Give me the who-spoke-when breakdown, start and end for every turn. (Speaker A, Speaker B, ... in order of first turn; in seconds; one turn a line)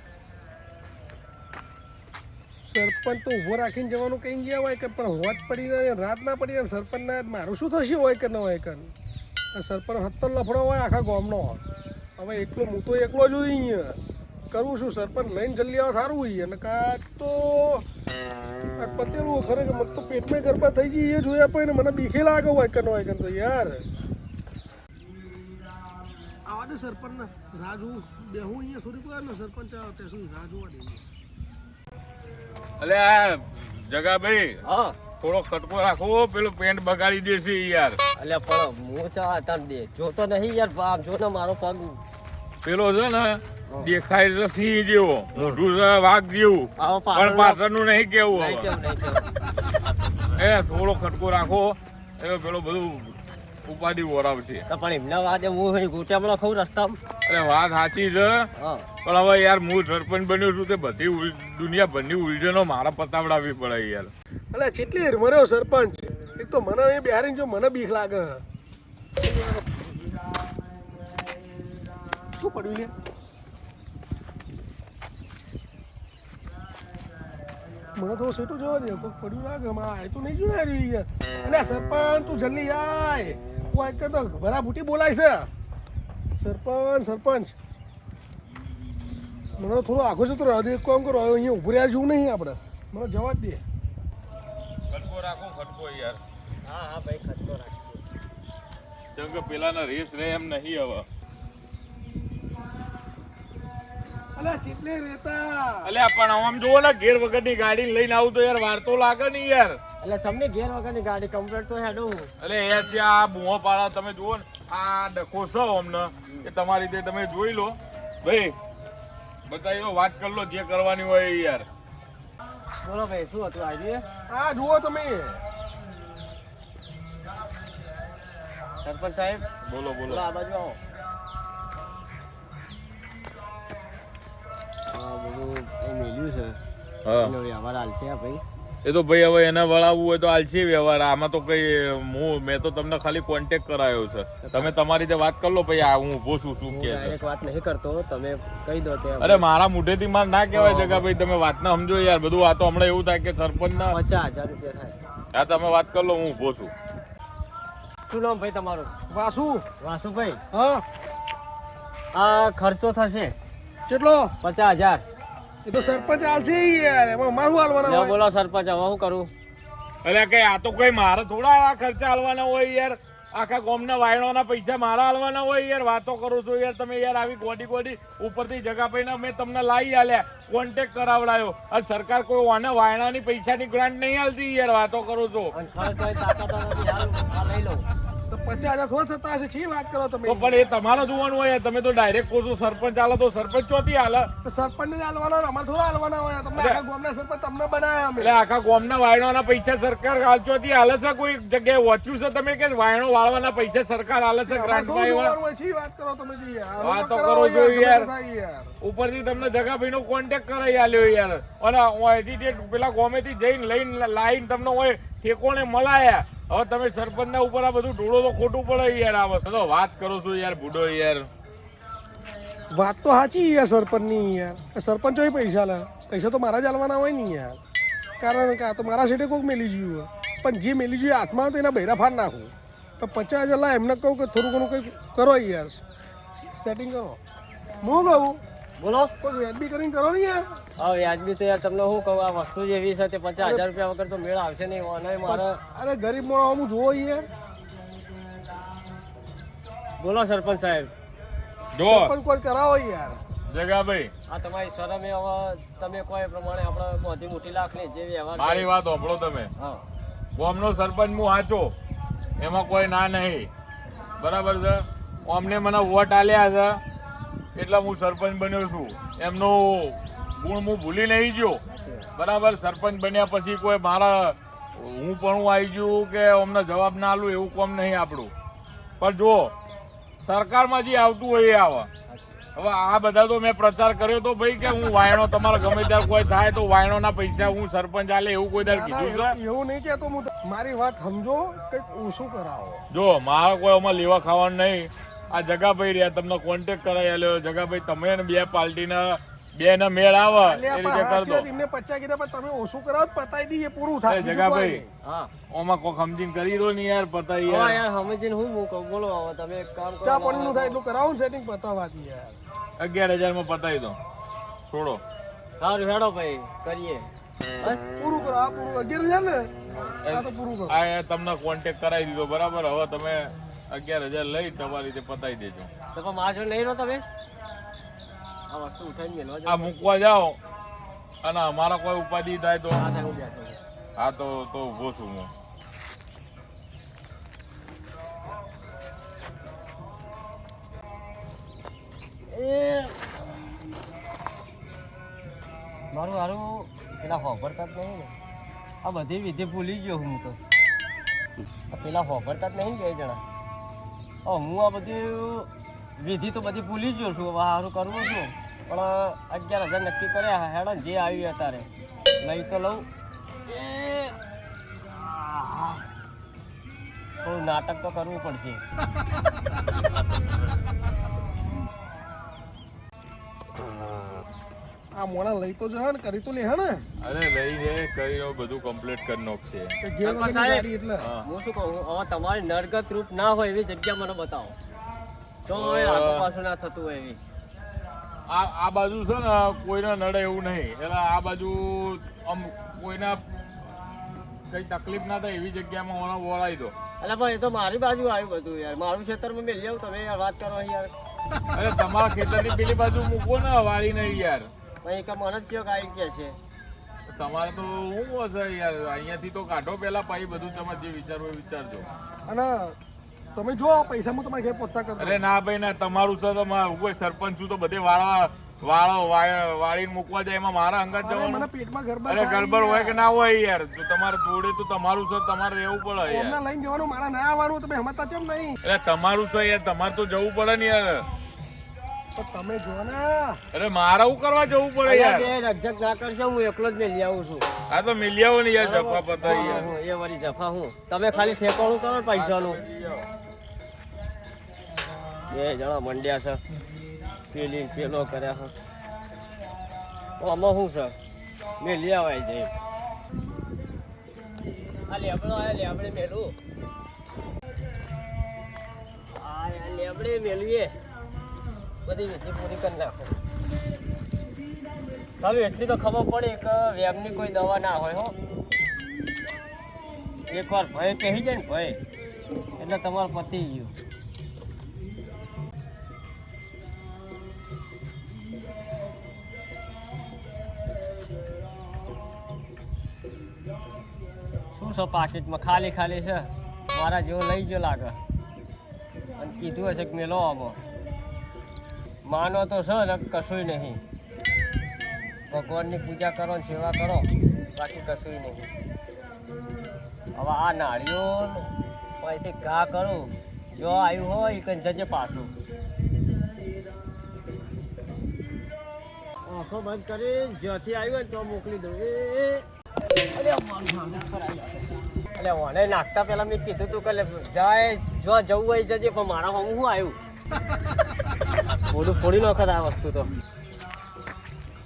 Speaker A: 2.6-8.9
Speaker A: 9.5-11.6
Speaker A: 12.2-14.0
Speaker A: 14.5-17.9
Speaker A: 18.8-23.9
Speaker A: 26.5-31.0
Speaker B: 32.8-34.6
Speaker C: 34.6-35.0
Speaker B: 35.2-38.0
Speaker C: 38.2-42.0
Speaker B: 42.6-48.7
Speaker C: 45.4-45.6
Speaker C: 46.8-47.6
Speaker C: 48.3-49.3
Speaker B: 50.4-54.6
Speaker C: 54.7-57.0
Speaker B: 57.3-58.5
Speaker C: 58.6-58.9
Speaker B: 59.0-64.1
Speaker A: 64.5-68.4
Speaker A: 69.3-69.6
Speaker A: 72.3-72.9
Speaker A: 77.9-85.5
Speaker A: 86.4-87.5
Speaker A: 89.6-93.6
Speaker B: 94.9-96.2
Speaker C: 96.7-98.0
Speaker B: 99.2-101.0
Speaker A: 104.3-105.9
Speaker B: 105.8-109.8
Speaker C: 110.0-112.3
Speaker B: 112.4-118.5
Speaker B: 119.5-121.7
Speaker C: 122.8-124.1
Speaker A: 124.3-125.4
Speaker C: 128.8-129.5
Speaker B: 129.7-130.2
Speaker C: 130.1-130.8
Speaker C: 134.9-136.6
Speaker B: 137.1-137.3
Speaker C: 137.2-138.4
Speaker B: 138.8-147.2
Speaker C: 144.4-144.8
Speaker C: 146.7-149.4
Speaker B: 149.2-153.9
Speaker C: 150.5-151.1
Speaker C: 153.8-155.0
Speaker B: 155.3-156.7
Speaker C: 158.1-158.9
Speaker A: 159.1-159.7
Speaker C: 159.8-160.4
Speaker A: 160.5-160.8
Speaker C: 162.1-163.3
Speaker A: 163.9-164.3
Speaker C: 164.4-165.0
Speaker A: 165.7-168.2
Speaker C: 167.8-169.3
Speaker B: 170.0-185.5
Speaker C: 185.5-187.9
Speaker A: 188.3-190.7
Speaker B: 190.3-194.3
Speaker A: 194.4-198.3
Speaker B: 196.6-196.8
Speaker B: 198.2-205.3
Speaker A: 204.5-208.7
Speaker B: 206.8-208.1
Speaker B: 208.8-221.3
Speaker A: 222.7-227.6
Speaker A: 228.2-235.8
Speaker A: 236.4-237.2
Speaker A: 237.8-238.4
Speaker C: 238.8-239.1
Speaker A: 239.2-240.5
Speaker C: 240.8-245.6
Speaker A: 243.4-243.7
Speaker A: 245.3-247.3
Speaker C: 250.0-250.9
Speaker B: 251.7-252.1
Speaker A: 251.8-253.2
Speaker B: 253.5-254.1
Speaker C: 254.3-258.7
Speaker B: 258.4-259.5
Speaker C: 259.6-259.9
Speaker B: 260.4-261.7
Speaker B: 262.4-263.5
Speaker B: 264.2-266.8
Speaker B: 267.6-271.6
Speaker C: 271.8-272.1
Speaker B: 272.1-278.3
Speaker B: 279.0-279.5
Speaker B: 280.2-281.9
Speaker C: 282.1-282.3
Speaker B: 282.6-289.4
Speaker A: 288.6-292.8
Speaker B: 292.9-301.5
Speaker A: 300.4-304.9
Speaker B: 304.1-304.8
Speaker C: 305.0-305.3
Speaker B: 305.5-307.8
Speaker C: 307.4-310.8
Speaker A: 310.0-312.4
Speaker B: 312.8-314.0
Speaker B: 314.7-315.0
Speaker C: 315.6-317.8
Speaker A: 318.0-319.5
Speaker C: 319.7-320.0
Speaker B: 320.0-325.7
Speaker A: 320.1-320.8
Speaker C: 325.9-327.0
Speaker C: 328.5-329.9
Speaker B: 329.5-330.4
Speaker B: 331.2-332.8
Speaker C: 332.7-333.6
Speaker B: 334.0-335.3
Speaker C: 342.3-343.0
Speaker C: 345.9-348.1
Speaker C: 348.8-350.4
Speaker C: 351.7-353.2
Speaker C: 354.2-361.7
Speaker C: 362.2-362.9
Speaker C: 363.7-364.1
Speaker C: 367.2-368.6
Speaker A: 374.9-376.8
Speaker B: 377.0-379.8
Speaker A: 379.8-381.1
Speaker C: 380.0-380.7
Speaker C: 381.2-384.6
Speaker C: 385.5-387.2
Speaker B: 385.5-386.3
Speaker B: 388.3-393.2
Speaker B: 394.5-396.8
Speaker C: 397.0-400.9
Speaker B: 401.5-404.5
Speaker C: 404.8-406.4
Speaker B: 407.1-411.9
Speaker A: 412.3-412.8
Speaker A: 413.4-415.2
Speaker B: 415.0-421.5
Speaker A: 421.0-423.0
Speaker B: 422.1-426.4
Speaker A: 426.1-428.6
Speaker B: 428.6-431.1
Speaker A: 432.1-433.4
Speaker B: 433.5-435.3
Speaker C: 434.9-437.5
Speaker B: 437.7-439.7
Speaker C: 438.6-442.6
Speaker A: 439.3-439.6
Speaker B: 441.1-443.1
Speaker C: 445.3-446.4
Speaker C: 447.3-448.5
Speaker C: 450.2-451.0
Speaker C: 451.6-452.5
Speaker C: 454.9-456.4
Speaker C: 459.1-460.8
Speaker C: 461.8-463.2
Speaker C: 465.2-468.2
Speaker C: 470.3-471.8
Speaker C: 472.6-473.8
Speaker C: 484.5-488.0
Speaker C: 489.2-490.6
Speaker C: 492.0-493.8
Speaker C: 495.3-498.5
Speaker C: 500.1-505.3
Speaker C: 509.3-512.5
Speaker C: 513.1-520.0
Speaker C: 521.7-523.1